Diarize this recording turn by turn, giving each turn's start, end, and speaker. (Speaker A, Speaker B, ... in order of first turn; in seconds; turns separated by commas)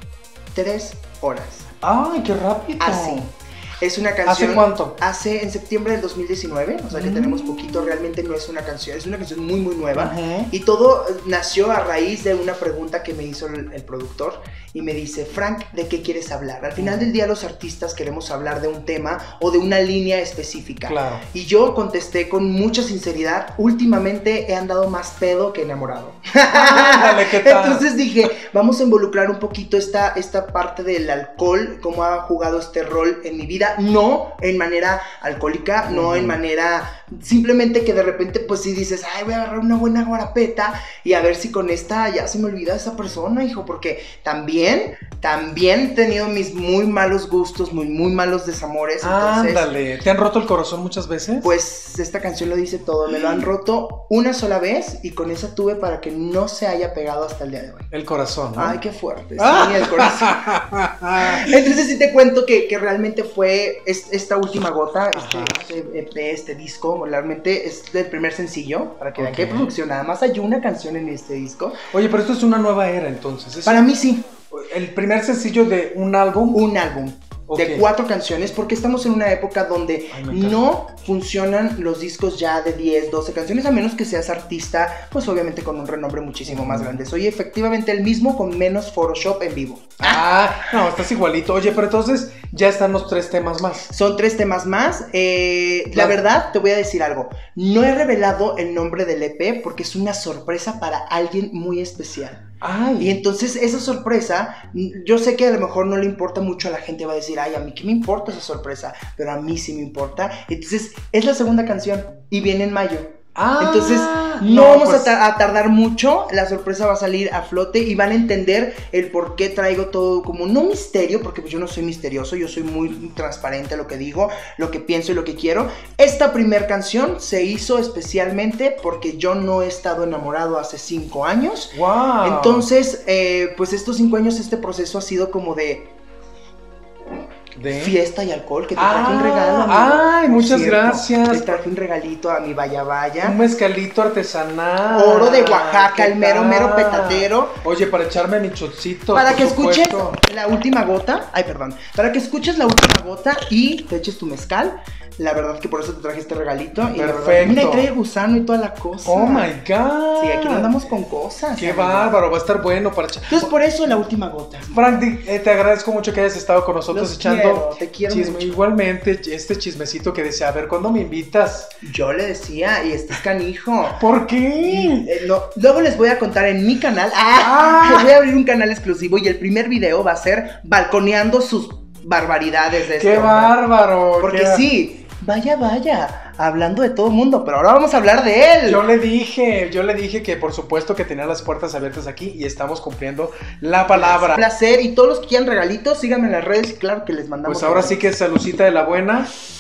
Speaker A: 0.5-1.7, Speaker B: 1.8-3.3, Speaker A: 2.8-49.7, Speaker B: 4.2-5.0, Speaker B: 6.9-8.0, Speaker B: 10.0-10.5, Speaker B: 16.8-17.1, Speaker B: 20.9-21.2, Speaker B: 26.5-27.9, Speaker B: 35.8-36.4, Speaker B: 49.0-51.5, Speaker A: 51.4-57.9, Speaker B: 53.1-53.4, Speaker B: 57.9-58.8, Speaker A: 58.6-60.6, Speaker B: 59.4-61.7, Speaker A: 61.2-71.8, Speaker B: 65.1-65.7, Speaker B: 69.2-69.7, Speaker B: 71.9-73.9, Speaker A: 73.7-74.3, Speaker B: 74.5-76.6, Speaker A: 76.5-90.8, Speaker B: 77.5-77.8, Speaker B: 80.1-80.6, Speaker B: 86.5-87.0, Speaker B: 90.0-93.9, Speaker A: 93.9-102.4, Speaker B: 95.9-96.2, Speaker B: 102.6-103.2, Speaker A: 103.0-135.9, Speaker B: 113.3-115.2, Speaker B: 131.7-132.7, Speaker B: 137.6-138.0, Speaker A: 137.7-143.4, Speaker B: 138.8-141.6, Speaker B: 143.2-150.2, Speaker A: 144.9-147.6, Speaker A: 149.1-159.5, Speaker B: 156.9-157.9, Speaker B: 159.1-160.8, Speaker A: 160.2-162.2, Speaker B: 161.6-163.5, Speaker A: 163.3-165.0, Speaker B: 164.7-171.7, Speaker A: 166.9-168.6, Speaker A: 171.8-174.0, Speaker B: 174.0-175.1, Speaker A: 174.6-183.6, Speaker B: 177.4-178.1, Speaker B: 182.9-184.7, Speaker A: 184.2-188.8, Speaker B: 188.7-194.5, Speaker A: 193.9-198.0, Speaker B: 197.5-199.3